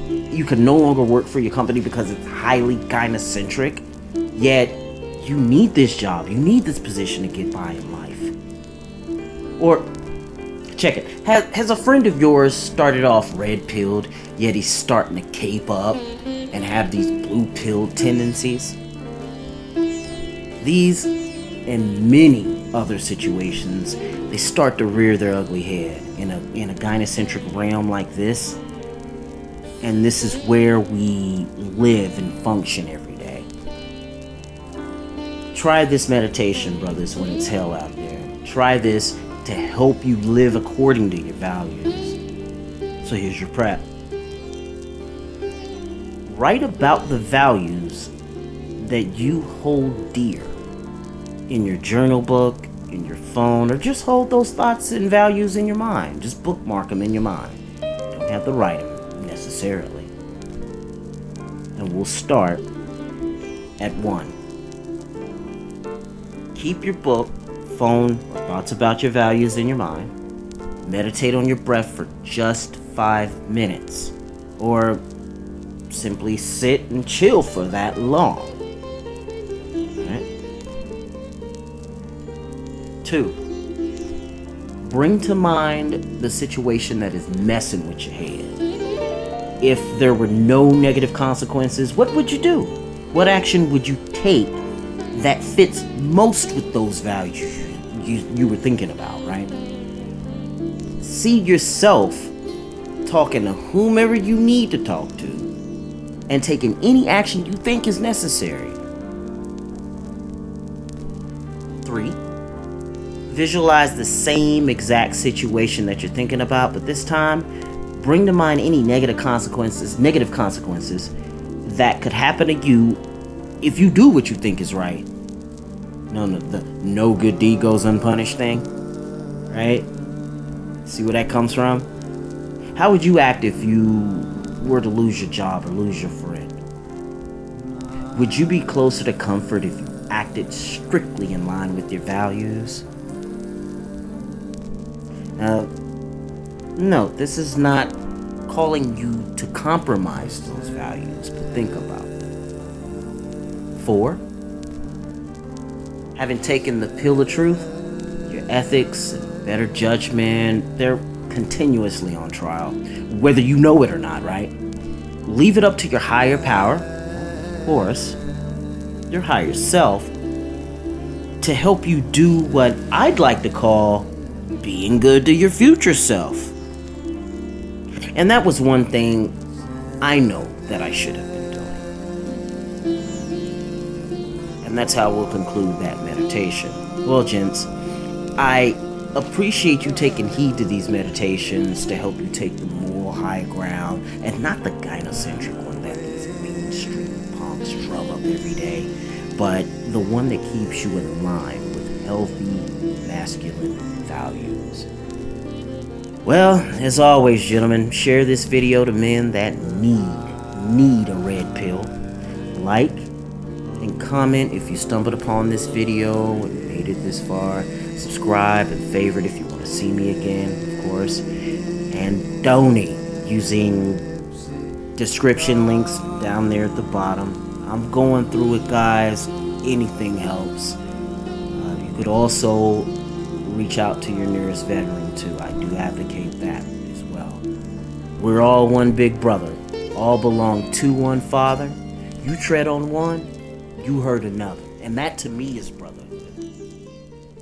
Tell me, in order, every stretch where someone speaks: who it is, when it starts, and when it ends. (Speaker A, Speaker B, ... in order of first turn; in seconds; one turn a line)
Speaker A: 0.3-8.3
Speaker A: 9.6-9.9
Speaker A: 10.8-18.8
Speaker A: 20.6-21.1
Speaker A: 21.7-28.6
Speaker A: 29.8-33.5
Speaker A: 35.5-42.2
Speaker A: 43.0-43.9
Speaker A: 46.3-48.1
Speaker A: 48.8-50.6
Speaker A: 51.5-57.6
Speaker A: 58.1-60.1
Speaker A: 61.8-62.6
Speaker A: 63.8-64.4
Speaker A: 66.5-70.1
Speaker A: 70.8-75.0
Speaker A: 75.9-78.6
Speaker A: 80.0-80.3
Speaker A: 83.0-83.4
Speaker A: 84.8-88.6
Speaker A: 89.6-94.6
Speaker A: 95.1-99.5
Speaker A: 101.0-102.3
Speaker A: 103.0-105.5
Speaker A: 106.3-108.8
Speaker A: 111.8-112.2
Speaker A: 113.3-121.1
Speaker A: 121.6-123.0
Speaker A: 123.6-125.1
Speaker A: 126.1-128.7
Speaker A: 129.5-129.9
Speaker A: 130.8-131.9
Speaker A: 132.8-136.6
Speaker A: 138.1-142.8
Speaker A: 145.4-145.7
Speaker A: 146.8-147.9
Speaker A: 148.5-152.2
Speaker A: 153.8-154.2
Speaker A: 156.2-157.7
Speaker A: 158.3-164.5
Speaker A: 165.2-166.9
Speaker A: 167.6-168.2
Speaker A: 169.1-170.1
Speaker A: 171.4-176.6
Speaker A: 178.2-179.3
Speaker A: 180.0-181.9
Speaker A: 184.6-187.7
Speaker A: 188.4-204.9
Speaker A: 206.2-211.9
Speaker A: 212.5-213.1
Speaker A: 213.8-221.2
Speaker A: 221.9-224.0
Speaker A: 225.0-230.8
Speaker A: 231.5-237.4
Speaker A: 238.2-246.4